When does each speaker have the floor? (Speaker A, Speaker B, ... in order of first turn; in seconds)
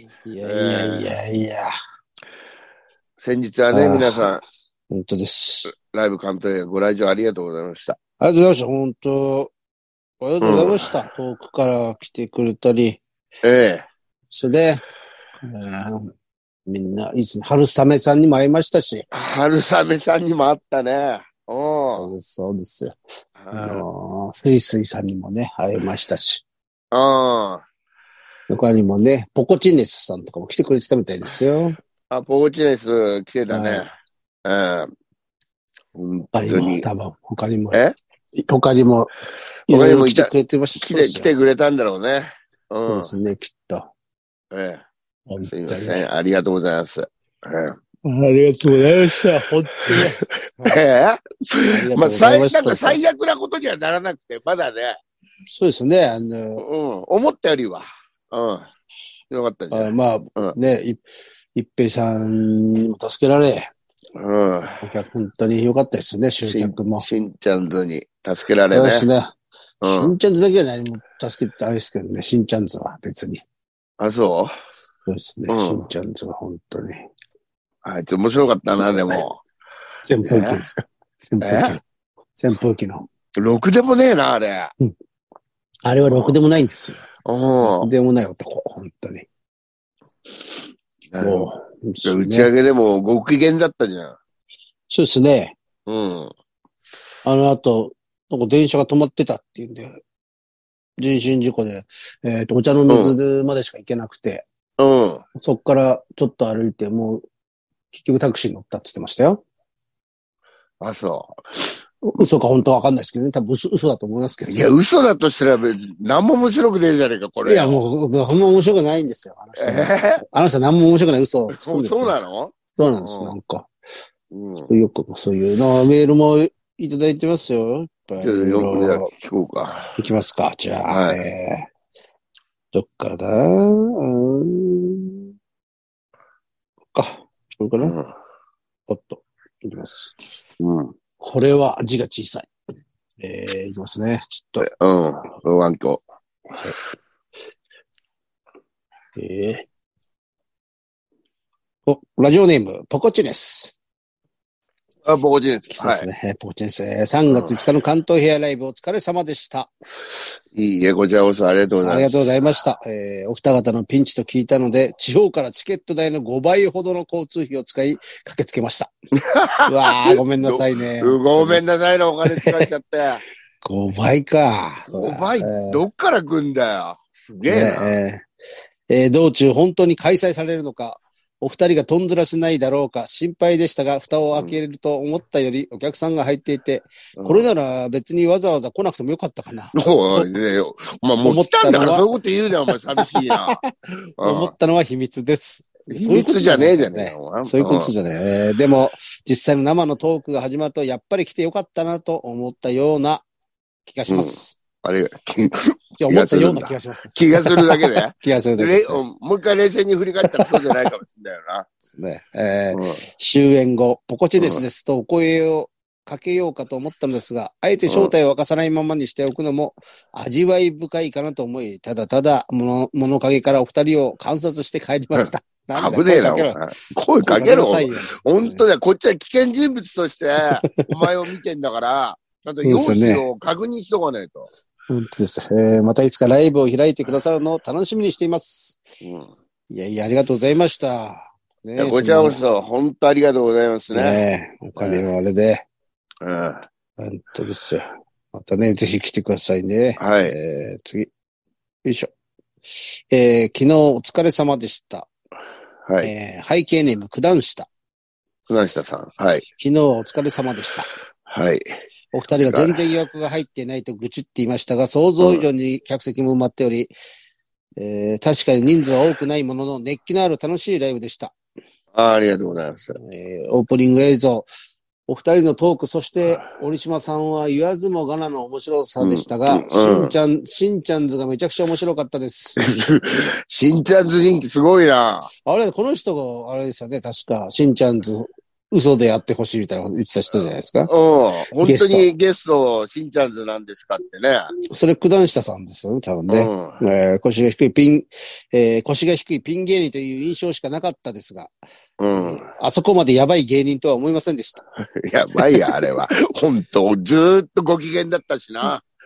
Speaker A: 0.2-1.7, 3.7-4.3, 4.9-5.7, 8.2-9.5, 10.2-13.0, 14.3-14.8, 15.4-16.1, 16.7-19.1, 21.9-22.9, 23.5-26.4, 28.5-31.8, 33.5-33.9, 36.3-37.8, 38.4-39.1, 39.7-41.3, 42.8-43.9, 45.3-46.1, 48.0-50.8, 51.7-53.0, 55.5-56.6, 59.7-61.0, 61.5-63.7, 64.8-67.0, 68.7-73.4, 75.0-77.1, 80.0-81.8, 82.3-83.1, 85.8-87.0, 87.6-89.3, 91.2-92.5, 94.9-95.5, 97.2-100.0, 101.0-104.4, 105.4-107.2, 107.9-109.4, 112.0-114.7, 117.4-122.2, 122.8-123.7, 124.7-129.1, 129.9-131.7, 132.7-135.2, 136.9-137.9, 138.9-140.1, 141.2-142.5, 143.2-144.7, 149.2-149.7, 151.9-153.8, 155.7-159.7, 161.8-168.9, 169.7-171.6, 172.2-172.7, 173.6-175.8, 177.4-178.2, 178.9-190.3, 191.2-192.1, 192.6-203.2, 203.8-204.6, 206.0-209.0, 210.2-210.7, 211.9-226.6, 227.2-228.6, 230.5-230.9, 232.6-233.2, 234.9-238.8, 239.7-242.4, 243.9-245.6, 247.0-251.1, 251.8-252.1, 252.8-255.1, 256.0-257.7, 259.6-260.9, 262.1-266.9, 267.8-271.3, 272.9-274.5, 275.1-282.8, 285.4-290.9, 291.6-292.1, 294.7-301.5, 302.1-304.6, 305.4-305.9
Speaker B: 0.4-1.1, 3.2-4.4, 5.7-8.0, 10.4-10.9, 13.4-13.8, 19.1-22.1, 23.4-23.8, 26.9-27.6, 32.1-33.9, 34.4-34.9, 35.9-36.8, 39.7-43.1, 44.5-44.8, 45.5-47.8, 49.9-50.1, 50.6-55.0, 56.6-58.7, 59.3-60.5, 64.2-64.8, 66.5-69.1, 69.8-70.1, 74.0-74.5, 75.5-75.9, 77.8-79.4, 80.2-80.6, 81.4-81.8, 83.4-84.7, 87.2-87.9, 91.1-91.4, 92.0-94.2, 95.8-96.3, 102.9-103.2, 104.8-105.2, 110.8-111.3, 114.5-117.8, 119.6-120.2, 121.5-123.3, 124.3-124.7, 128.2-129.9, 130.9-131.2, 137.8-138.1, 140.6-140.9, 144.6-146.0, 155.0-156.1, 157.3-157.6, 160.5-162.3, 169.2-173.2, 174.9-177.9, 187.2-187.5, 189.7-193.6, 194.2-194.5, 195.9-197.9, 204.1-211.7, 212.7-213.0, 217.9-218.1, 225.2-234.5, 239.0-239.3, 241.8-244.2, 244.8-245.0, 246.2-246.7, 250.0-250.3, 258.5-259.4, 261.3-261.6, 262.4-262.8, 265.2-265.4, 271.9-273.0, 279.0-280.1, 282.6-285.3, 290.9-294.5, 296.3-296.8, 302.0-302.4, 304.8-308.8